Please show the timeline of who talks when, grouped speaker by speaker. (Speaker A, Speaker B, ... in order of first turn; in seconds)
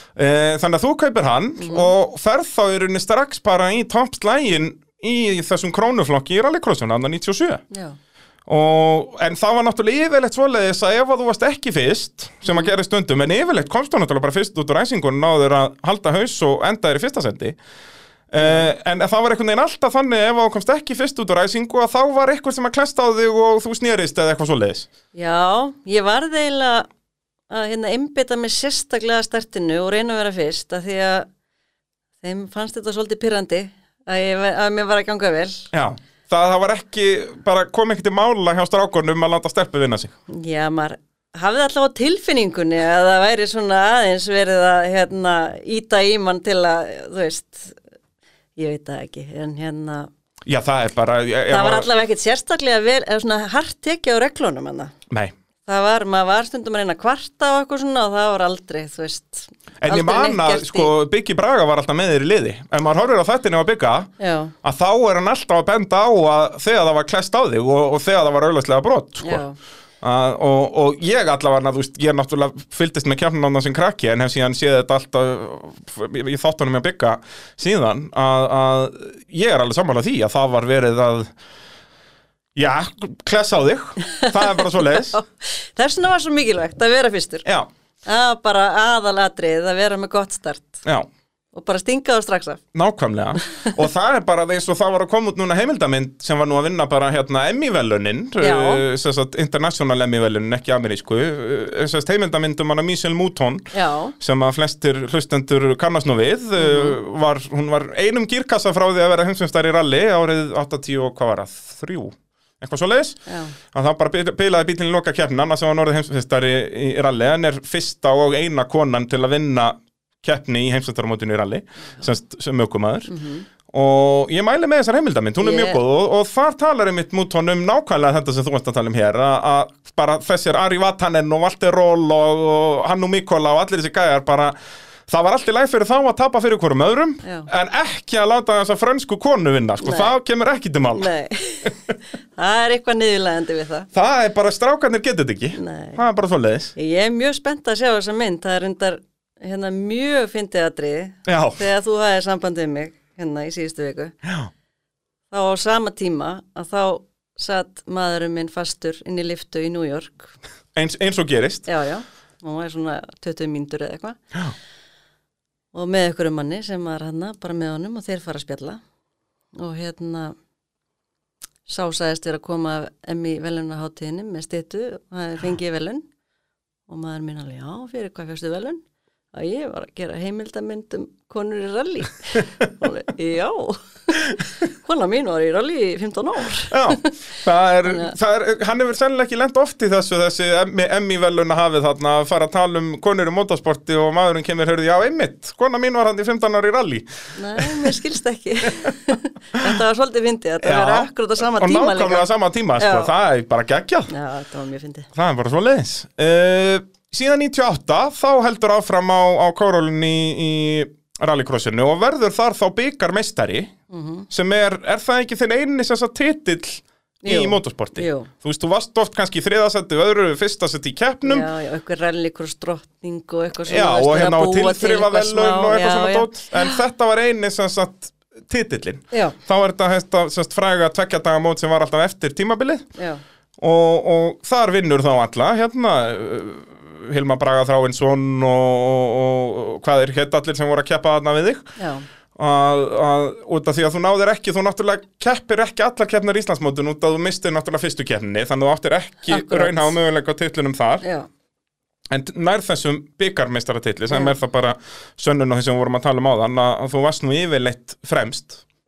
Speaker A: 0.1-7.6, 8.5-17.6, 18.3-24.9, 35.7-40.1, 50.5-51.9, 59.8-64.1, 64.6-69.4, 70.0-81.3, 82.5-85.2, 92.7-113.2, 113.7-123.1, 123.7-134.6, 135.1-141.1, 143.9-146.7, 151.3-151.6, 154.2-154.5, 160.8-161.7, 186.7-198.0, 200.6-204.1, 205.2-213.7, 214.3-221.5, 223.7-232.9, 233.6-241.7, 242.4-251.0, 252.1-258.6
Speaker B: 1.6-1.9, 7.7-8.0, 12.4-12.8, 18.4-18.7, 25.1-26.9, 27.5-31.3, 32.2-35.7, 40.3-47.8, 48.6-50.1, 51.5-54.9, 55.7-60.9, 64.2-64.5, 69.2-69.6, 84.0-87.5, 88.0-90.8, 91.5-92.6, 93.5-93.7, 98.4-98.8, 103.7-104.1, 106.6-107.0, 113.3-113.6, 123.1-123.5, 125.4-125.8, 137.2-137.5, 139.8-140.1, 140.9-143.9, 145.6-146.0, 146.8-154.2, 155.3-160.3, 161.7-164.2, 165.7-168.8, 169.6-170.3, 171.7-176.1, 176.9-178.8, 179.3-187.2, 187.8-188.2, 197.4-203.1, 204.1-205.1, 213.9-214.3, 217.2-218.3, 221.2-226.8, 241.8-242.1, 249.3-249.9, 251.0-251.3, 254.1-254.4